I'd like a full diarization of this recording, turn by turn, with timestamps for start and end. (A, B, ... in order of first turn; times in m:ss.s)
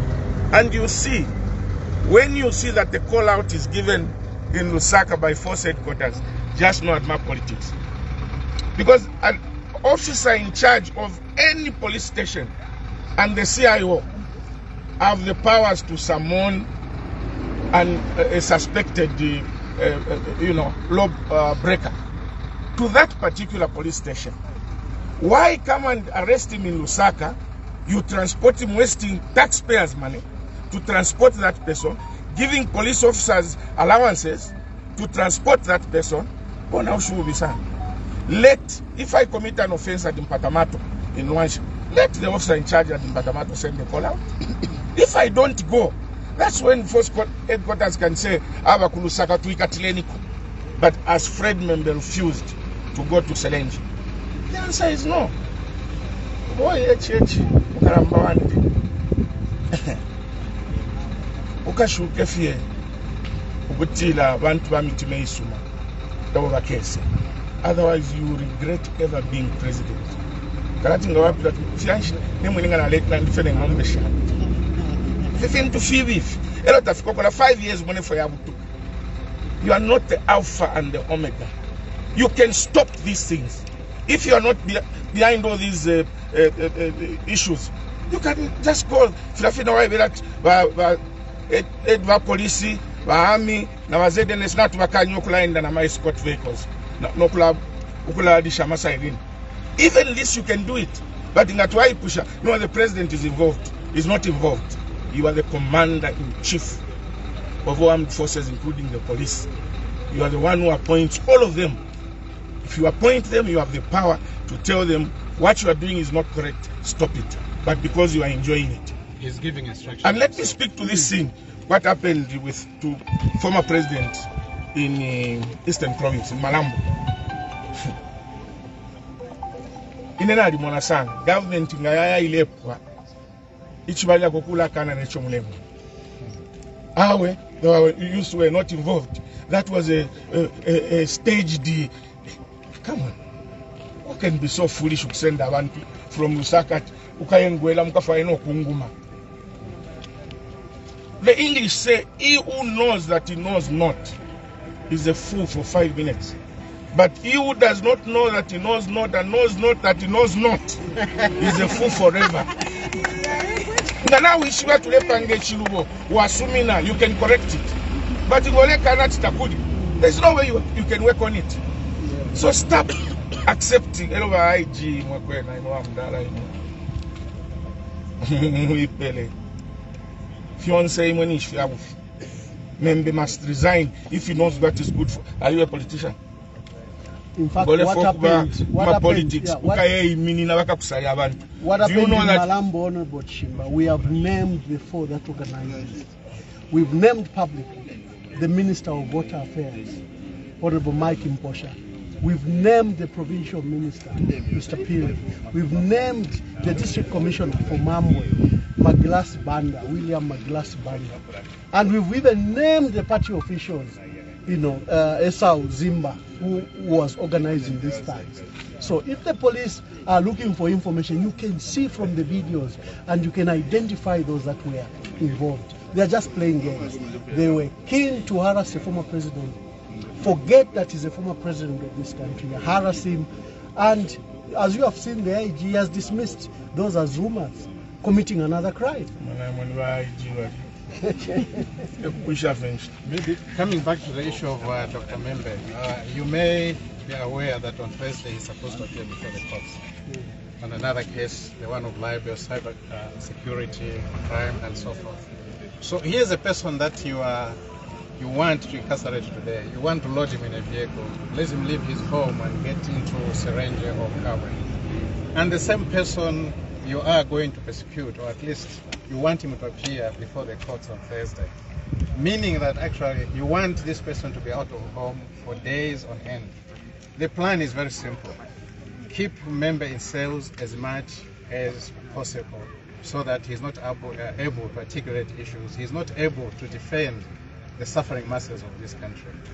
0:00.5-0:01.3 A
0:02.0-0:07.7 A
0:08.8-0:12.5 A
0:13.2-0:14.1 A
0:15.0-0:16.7 A
0:17.7-0:22.0 A
0:22.8-0:24.3 A
0:25.2-0:37.6 A
0:38.3-0:44.2 A
0:44.9-0:50.2 A
0:50.8-0:53.8 A
0:54.5-0:55.3 A
0:56.5-0:58.6 A
1:01.6-1:02.6 A
1:03.7-1:05.6 A
1:06.3-1:07.1 A
1:07.6-1:10.2 A
1:10.8-1:14.2 A
1:15.3-1:18.6 A
1:19.6-1:21.5 A
1:22.1-1:39.2 A
1:39.8-1:46.8 A
1:47.6-1:49.5 A
1:50.1-1:51.8 A
1:52.6-1:58.9 A
1:59.2-2:00.6 B
2:00.0-2:06.8 A
2:10.2-2:12.8 A
2:13.9-2:15.6 A
2:17.0-2:21.9 A
2:22.8-2:23.1 A
2:24.0-2:28.9 A
2:31.2-2:34.1 A
2:34.9-2:36.3 A
2:36.9-2:40.8 A
2:41.4-2:42.5 A
2:44.0-2:47.7 A
2:48.2-2:51.6 A
2:52.0-2:52.4 C
2:52.3-2:52.9 A
2:53.4-2:56.5 A
2:58.2-2:59.3 A
3:00.6-3:02.0 A
3:02.8-3:06.2 A
3:07.4-3:09.8 C
3:07.6-3:12.5 A
3:11.6-3:16.1 C
3:16.7-3:17.8 C
3:18.3-3:20.0 C
3:20.6-3:31.2 C
3:31.7-3:49.6 C
3:50.2-3:59.1 C
3:59.2-4:00.6 A
4:01.0-4:01.6 C
4:02.0-4:02.9 A
4:03.0-4:09.8 B
4:10.6-4:15.2 B
4:15.8-4:17.6 B
4:18.2-4:24.6 B
4:25.3-4:31.5 B
4:32.1-4:36.5 B
4:37.2-4:38.4 B
4:39.1-4:49.4 B